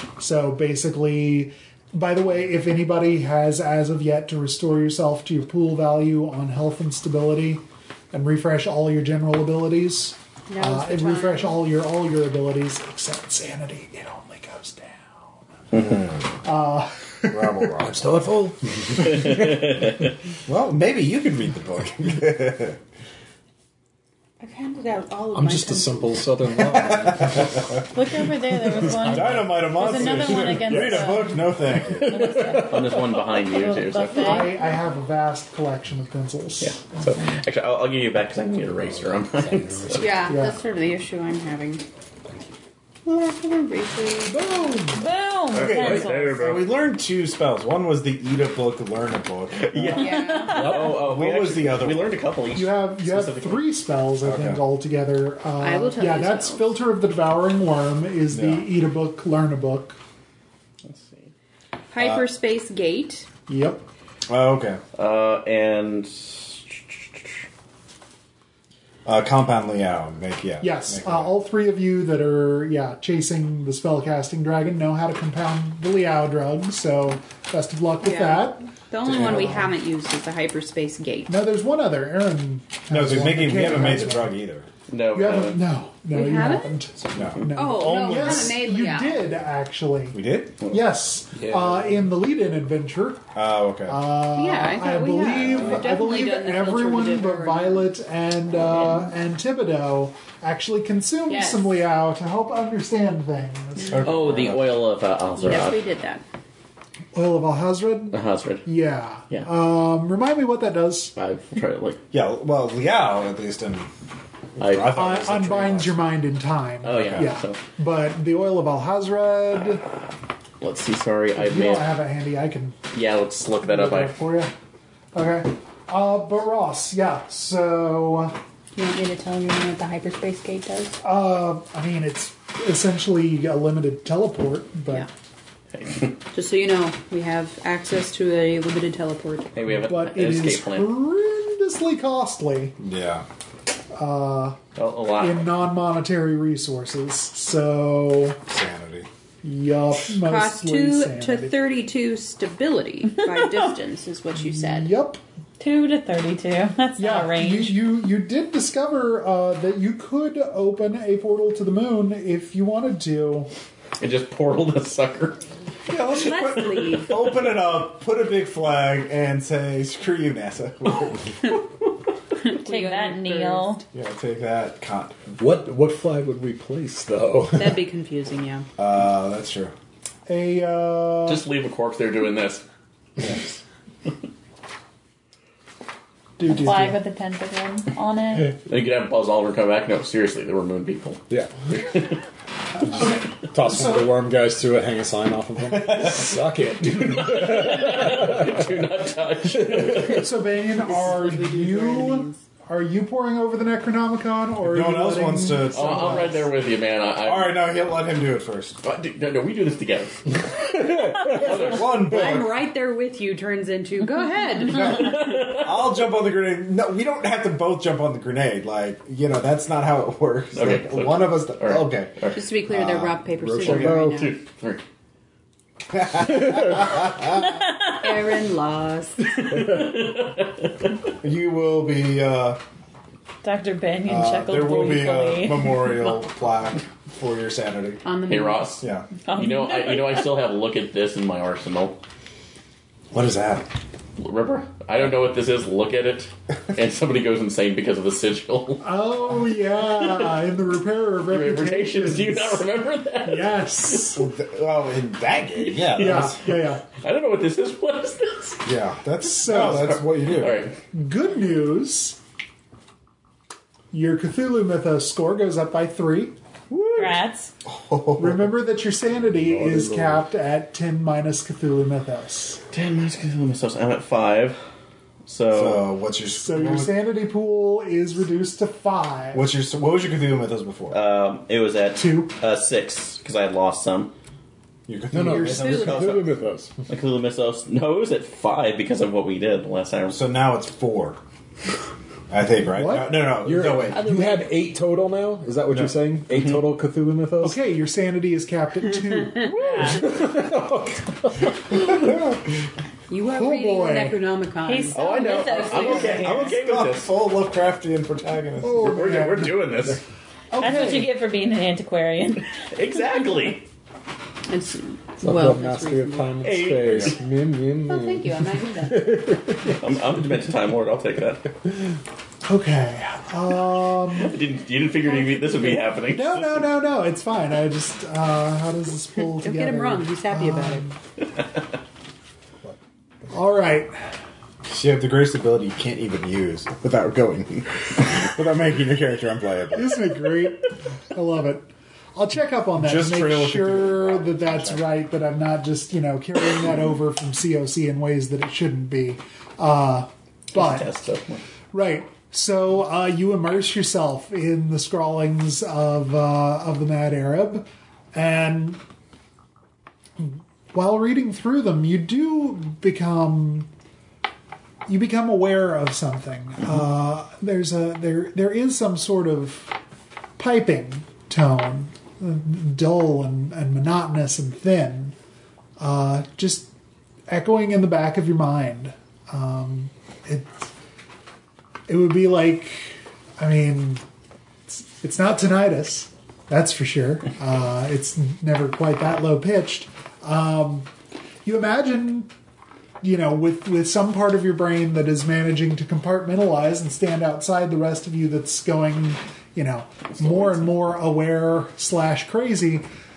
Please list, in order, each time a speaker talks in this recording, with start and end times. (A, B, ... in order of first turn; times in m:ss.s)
0:00.2-0:15.8 A
0:10.5-0:11.6 B
0:15.7-0:16.2 C
0:16.4-0:17.7 A
0:17.3-0:18.1 C
0:17.8-0:19.7 D
0:19.2-0:20.0 E
0:20.5-0:22.8 C
0:24.4-0:26.1 B
0:25.3-0:27.9 D
0:26.6-0:27.8 C
0:27.9-0:31.5 F
0:28.6-0:31.2 D
0:28.9-0:32.4 C
0:30.0-0:30.9 B
0:31.9-0:33.2 D
0:32.0-0:32.8 F
0:32.5-0:34.5 E
0:33.5-0:34.6 F
0:34.2-0:37.1 A
0:36.6-0:40.2 E
0:39.6-0:40.0 D
0:40.0-0:41.8 B
0:40.3-0:40.6 A
0:43.1-0:44.5 B
0:44.4-0:45.0 A
0:44.9-0:46.5 F
0:45.5-0:50.0 C
0:45.6-0:46.6 E
0:49.6-0:53.7 E
0:49.9-0:50.8 B
0:50.0-0:50.9 F
0:50.9-0:52.1 C
0:52.5-1:00.0 A
0:54.2-0:54.6 C
0:55.6-0:56.8 B
0:58.3-0:58.7 C
1:00.8-1:01.3 E
1:01.9-1:03.3 B
1:02.0-1:02.2 C
1:03.5-1:03.8 A
1:04.3-1:04.8 C
1:05.0-1:07.3 E
1:09.1-1:11.3 C
1:10.6-1:19.7 A
1:18.0-1:21.4 B
1:19.1-1:19.6 C
1:21.3-1:24.4 A
1:22.9-1:24.7 C
1:24.9-1:25.6 E
1:25.1-1:33.3 A
1:26.1-1:26.8 B
1:27.1-1:28.5 C
1:27.5-1:29.3 B
1:30.1-1:30.6 C
1:31.4-1:32.1 D
1:33.4-1:34.2 C
1:33.9-1:44.2 A
1:34.3-1:37.9 B
1:35.4-1:35.8 C
1:41.3-1:41.7 B
1:43.9-1:44.7 C
1:44.0-1:45.8 E
1:45.4-1:46.2 B
1:47.1-1:51.1 A
1:48.1-1:48.7 E
1:51.2-1:52.0 E
1:52.1-1:53.9 C
1:54.6-1:56.0 C
1:54.6-1:55.0 E
1:54.9-1:59.8 A
1:56.8-1:57.6 E
2:00.6-2:02.0 E
2:01.4-2:02.8 A
2:02.9-2:04.2 E
2:03.6-2:04.5 A
2:05.1-2:08.4 A
2:08.8-2:11.0 B
2:11.0-2:15.1 A
2:15.7-2:16.2 E
2:16.3-2:19.6 B
2:19.6-2:21.0 E
2:19.7-2:22.8 A
2:22.8-2:23.3 C
2:23.9-2:24.6 A
2:24.8-2:25.5 E
2:25.2-2:28.4 A
2:28.5-2:29.1 C
2:29.4-2:31.6 A
2:30.1-2:34.9 B
2:34.4-2:35.2 A
2:35.6-2:37.8 F
2:37.0-2:43.5 A
2:44.0-2:45.4 E
2:45.9-2:51.3 C
2:46.0-2:47.2 B
2:52.4-2:53.8 B
2:52.6-2:53.8 F
2:53.9-2:55.3 C
2:55.4-2:57.8 D
2:57.6-2:58.7 B
2:58.8-2:59.7 C
3:00.3-3:01.4 A
3:01.3-3:02.6 E
3:06.4-3:07.0 A
3:06.5-3:08.5 F
3:08.7-3:12.2 E
3:11.3-3:11.6 D
3:12.8-3:14.2 A
3:13.0-3:18.8 D
3:15.9-3:16.2 C
3:16.8-3:20.3 E
3:19.5-3:20.3 D
3:20.0-3:26.4 A
3:20.8-3:22.4 B
3:24.6-3:26.4 C
3:25.7-3:27.7 E
3:27.2-3:28.8 C
3:28.8-3:31.9 E
3:30.6-3:31.7 D
3:31.4-3:32.6 C
3:31.9-3:35.2 B
3:34.7-3:43.2 C
3:34.8-3:35.7 E
3:40.5-3:42.4 E
3:42.3-3:44.3 B
3:43.4-3:44.3 D
3:43.6-3:44.8 E
3:45.9-3:47.2 C
3:47.6-3:49.8 B
3:49.3-3:51.0 E
3:51.2-3:52.6 C
3:53.4-3:55.9 F
3:54.1-3:58.0 C
3:58.0-3:58.8 B
3:58.3-3:58.8 E
3:58.8-3:59.1 C
3:59.3-4:00.2 F
3:59.3-4:02.0 E
4:03.1-4:03.7 C
4:04.2-4:08.9 E
4:08.8-4:12.7 A
4:10.0-4:10.3 E
4:11.3-4:14.2 E
4:13.2-4:14.2 A
4:14.1-4:16.4 C
4:15.6-4:18.6 E
4:15.9-4:16.8 A
4:18.6-4:20.6 C
4:19.3-4:20.0 A
4:19.5-4:20.8 E
4:20.9-4:22.2 A
4:23.9-4:26.4 A
4:26.7-4:27.1 C
4:27.0-4:27.5 F
4:27.6-4:28.5 C
4:28.2-4:32.6 A
4:29.4-4:30.2 D
4:32.7-4:34.6 E
4:35.3-4:35.9 E
4:35.5-4:37.0 C
4:36.4-4:39.4 A
4:39.3-4:41.0 C
4:40.9-4:44.1 E
4:42.0-4:42.3 A
4:44.9-4:46.2 C
4:45.1-4:46.7 D
4:45.3-4:45.7 A
4:45.6-4:45.9 B
4:45.7-4:46.2 E
4:46.9-4:50.2 E
4:50.1-4:51.2 C
4:52.3-4:54.0 C
4:52.7-4:53.2 A
4:53.4-4:57.6 D
4:53.9-4:54.5 B
4:55.7-4:56.0 C
4:57.4-4:59.5 A
4:59.6-5:00.0 F
4:59.6-5:00.0 E
4:59.8-5:02.0 D
5:03.1-5:06.3 B
5:03.2-5:04.3 A
5:04.6-5:06.6 F
5:04.9-5:07.1 E
5:06.0-5:09.0 C
5:08.6-5:09.9 A
5:08.8-5:10.0 E
5:10.5-5:11.1 A
5:10.6-5:12.5 F
5:12.7-5:13.7 E
5:14.5-5:16.3 B
5:15.2-5:19.8 D
5:16.4-5:17.2 E
5:16.9-5:17.1 C
5:17.9-5:19.3 B
5:19.7-5:21.5 E
5:22.4-5:24.4 A
5:24.1-5:26.8 E
5:25.7-5:31.0 A
5:29.3-5:30.9 B
5:33.3-5:34.0 A
5:34.7-5:40.0 C
5:39.7-5:50.9 A
5:42.8-5:45.0 C
5:50.5-5:51.4 E
5:51.7-5:58.8 A
6:00.2-6:03.7 A
6:04.9-6:09.8 A
6:10.4-6:15.2 A
6:15.8-6:16.7 A
6:17.3-6:20.7 A
6:21.9-6:24.0 A
6:24.7-6:30.9 A
6:31.4-6:32.3 A
6:33.0-6:42.9 A